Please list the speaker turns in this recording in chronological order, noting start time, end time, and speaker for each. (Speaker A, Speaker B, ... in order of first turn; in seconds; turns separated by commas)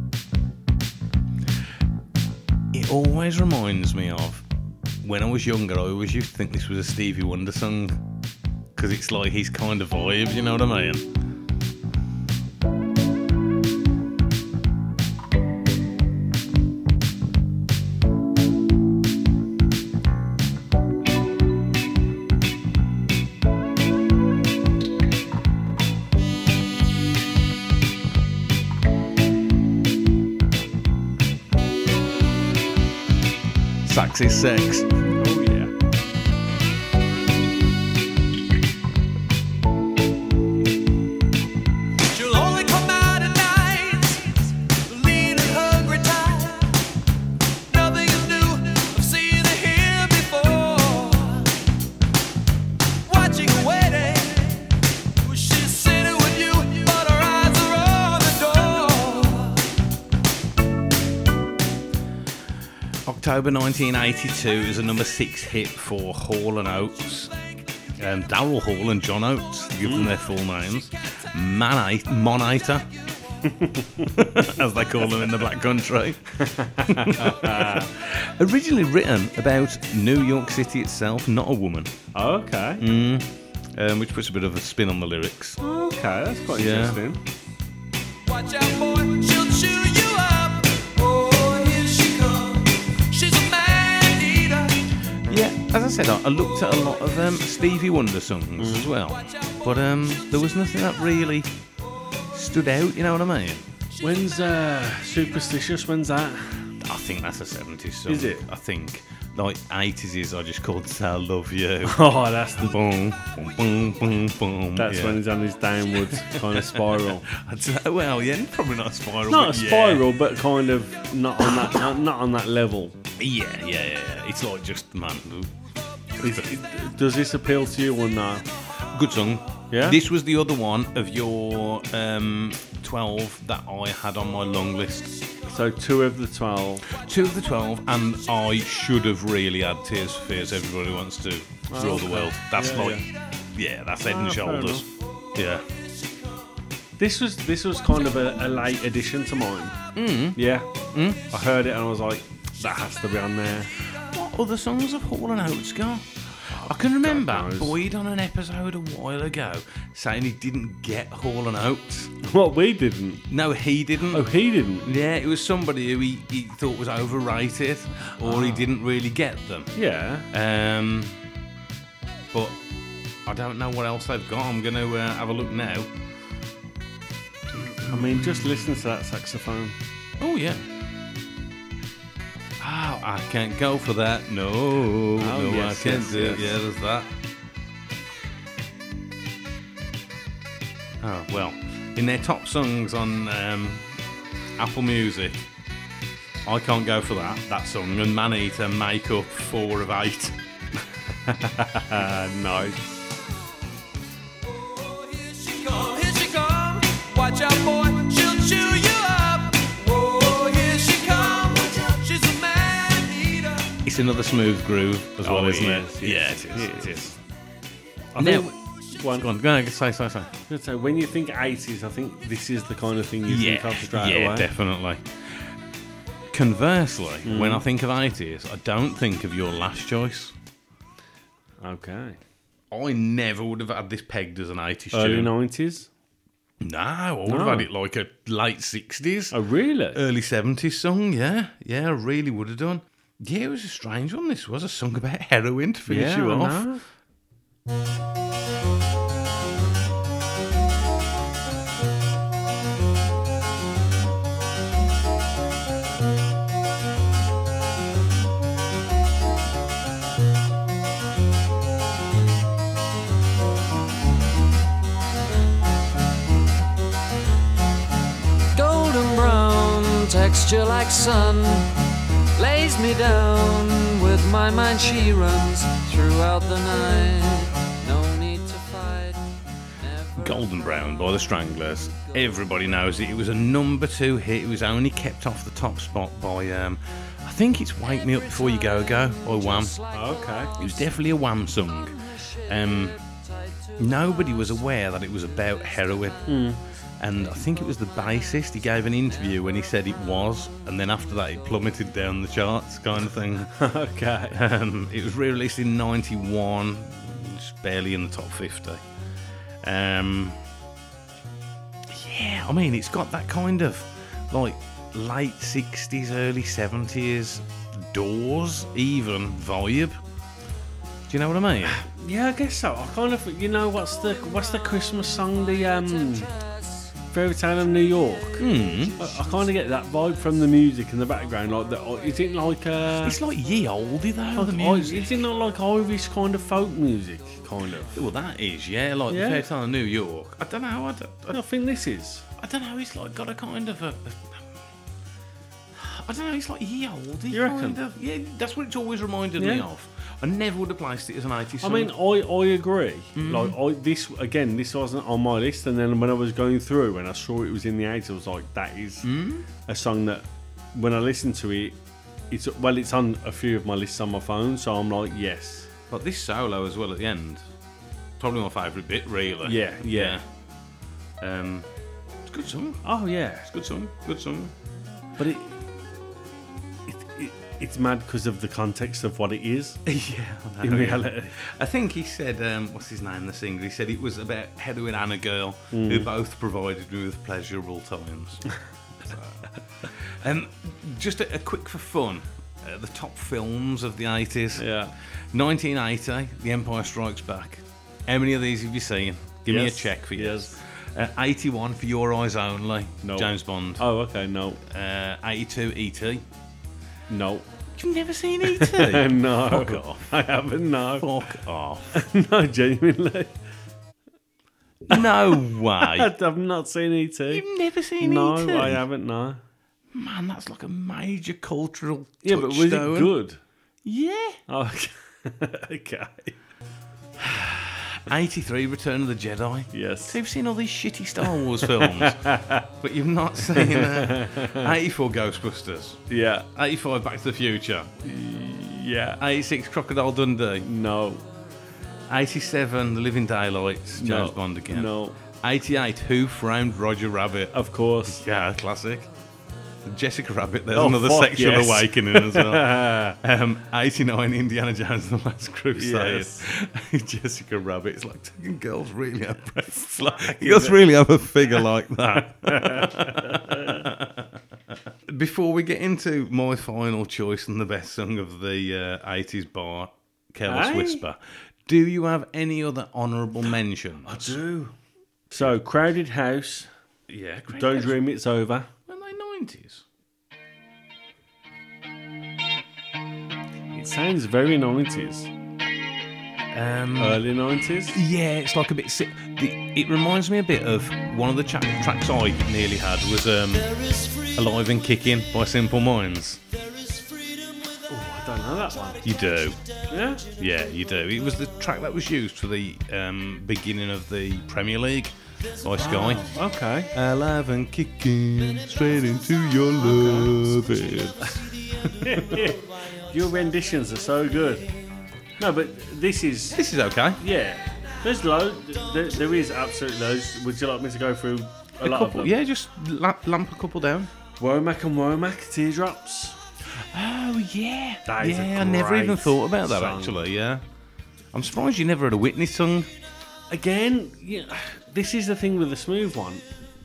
Speaker A: 2.7-4.4, Speaker A: 5.0-8.0, Speaker A: 8.7-11.1, Speaker A: 33.8-35.0, Speaker B: 35.2-35.7, Speaker C: 42.1-44.3, Speaker C: 44.9-46.6, Speaker C: 47.7-51.4, Speaker C: 53.1-54.6, Speaker C: 55.2-59.4, Speaker A: 63.0-67.4, Speaker A: 68.0-72.9, Speaker B: 69.8-70.1, Speaker B: 73.4-74.1, Speaker A: 74.1-76.2, Speaker B: 76.4-77.9, Speaker A: 76.9-81.9, Speaker B: 82.2-82.8, Speaker A: 82.8-85.6, Speaker B: 85.6-87.2, Speaker A: 86.5-87.0, Speaker C: 88.3-92.6, Speaker C: 93.1-94.7, Speaker A: 95.2-101.5, Speaker B: 98.6-98.9, Speaker A: 102.3-103.7, Speaker B: 104.0-106.7, Speaker A: 106.8-115.2, Speaker B: 108.1-108.5, Speaker B: 111.8-112.7, Speaker B: 114.8-117.3, Speaker A: 116.0-120.1, Speaker B: 119.3-123.0, Speaker A: 121.4-121.8, Speaker A: 123.2-125.5, Speaker A: 126.2-126.5, Speaker B: 126.2-128.5, Speaker A: 128.9-135.1, Speaker B: 129.7-130.0, Speaker B: 135.5-136.8, Speaker A: 136.9-145.7, Speaker B: 141.7-143.1, Speaker B: 144.0-144.8, Speaker B: 147.0-149.8, Speaker A: 149.9-151.2, Speaker B: 150.3-150.7, Speaker B: 151.3-153.7, Speaker A: 154.1-162.1, Speaker B: 156.5-157.8, Speaker B: 162.2-163.2, Speaker A: 163.3-169.7, Speaker B: 164.1-164.9, Speaker B: 168.2-168.7, Speaker B: 169.8-170.3, Speaker A: 170.3-171.2, Speaker A: 172.3-172.6, Speaker A: 173.3-175.9, Speaker B: 177.7-179.8, Speaker A: 177.8-178.7, Speaker A: 180.2-180.7, Speaker A: 182.6-187.1, Speaker B: 185.2-186.4, Speaker A: 191.0-193.9, Speaker A: 194.6-195.4, Speaker A: 196.4-200.4, Speaker B: 201.3-203.0, Speaker C: 205.5-213.6, Speaker A: 213.8-217.2, Speaker B: 215.2-217.2, Speaker B: 218.2-219.3, Speaker A: 218.2-220.4, Speaker B: 220.5-224.5, Speaker A: 223.3-225.5, Speaker A: 226.3-230.3, Speaker B: 227.2-227.6, Speaker B: 231.6-232.2, Speaker A: 232.7-235.3, Speaker B: 234.9-235.9, Speaker A: 236.6-239.4, Speaker B: 237.3-237.7, Speaker B: 239.3-240.0, Speaker A: 239.9-246.7, Speaker B: 245.9-246.8, Speaker D: 268.5-271.7, Speaker D: 272.4-279.2, Speaker D: 279.8-280.5, Speaker A: 280.1-289.8, Speaker B: 289.9-290.6, Speaker A: 290.6-293.0, Speaker A: 293.8-296.4, Speaker B: 296.3-296.6, Speaker A: 297.0-303.5, Speaker B: 303.6-304.4, Speaker A: 304.3-308.8, Speaker A: 309.6-310.4, Speaker A: 311.9-320.0, Speaker A: 321.1-321.8, Speaker B: 321.6-326.3, Speaker B: 327.1-333.2, Speaker A: 328.4-329.1, Speaker A: 333.0-335.2, Speaker B: 334.4-338.0, Speaker A: 337.9-341.4, Speaker B: 339.1-339.4, Speaker B: 341.3-342.2, Speaker A: 342.4-344.4, Speaker A: 345.7-351.9, Speaker B: 347.3-347.8, Speaker B: 349.4-349.6, Speaker B: 351.6-359.1, Speaker A: 353.1-353.6, Speaker A: 359.0-359.5, Speaker B: 359.6-361.8, Speaker B: 362.3-365.7, Speaker A: 365.9-367.4, Speaker A: 368.2-370.2, Speaker B: 369.4-370.2, Speaker A: 371.2-371.7, Speaker A: 372.3-372.9, Speaker B: 372.8-373.5, Speaker A: 373.4-374.5, Speaker B: 375.2-375.7, Speaker B: 376.9-379.8, Speaker A: 379.9-394.7, Speaker B: 380.6-381.3, Speaker B: 385.7-386.1, Speaker B: 394.6-394.9, Speaker A: 395.3-403.9, Speaker B: 399.5-400.6, Speaker B: 403.0-404.6, Speaker A: 404.6-406.3, Speaker B: 407.1-407.5, Speaker A: 407.7-410.1, Speaker B: 408.4-411.1, Speaker A: 411.0-412.0, Speaker B: 411.9-413.4, Speaker A: 414.9-416.1, Speaker B: 414.9-417.4, Speaker A: 417.3-418.8, Speaker B: 418.0-419.4, Speaker A: 419.9-423.1, Speaker B: 422.2-423.4, Speaker A: 423.8-424.4, Speaker B: 424.5-426.4, Speaker A: 427.2-432.2, Speaker B: 429.7-430.2, Speaker B: 431.3-432.6, Speaker A: 432.8-437.9, Speaker B: 433.6-434.7, Speaker B: 436.1-436.4, Speaker B: 438.0-439.2, Speaker A: 439.2-440.7, Speaker B: 440.6-441.2, Speaker A: 442.1-447.5, Speaker B: 443.9-445.2, Speaker B: 447.5-448.2, Speaker A: 448.1-449.1, Speaker A: 449.9-464.4, Speaker B: 450.7-453.2, Speaker B: 455.7-456.4, Speaker B: 460.1-460.8, Speaker B: 462.2-463.9, Speaker A: 465.1-474.4, Speaker B: 470.4-471.0, Speaker B: 474.1-474.7, Speaker B: 475.3-476.7, Speaker A: 477.1-478.0, Speaker B: 477.5-478.7, Speaker A: 478.9-479.9, Speaker B: 483.7-485.3, Speaker A: 486.5-487.2, Speaker B: 487.0-488.0, Speaker A: 487.9-496.4, Speaker B: 497.9-499.1, Speaker A: 499.0-499.6, Speaker B: 499.9-500.3, Speaker A: 500.3-506.3, Speaker B: 505.7-506.9, Speaker A: 506.9-512.5, Speaker B: 509.8-510.4, Speaker B: 512.0-514.7, Speaker B: 515.4-516.6, Speaker A: 516.5-517.2, Speaker B: 517.2-522.4, Speaker A: 521.8-524.1, Speaker B: 524.4-526.4, Speaker A: 526.7-530.6, Speaker B: 528.1-530.2, Speaker A: 531.3-532.9, Speaker B: 533.5-536.4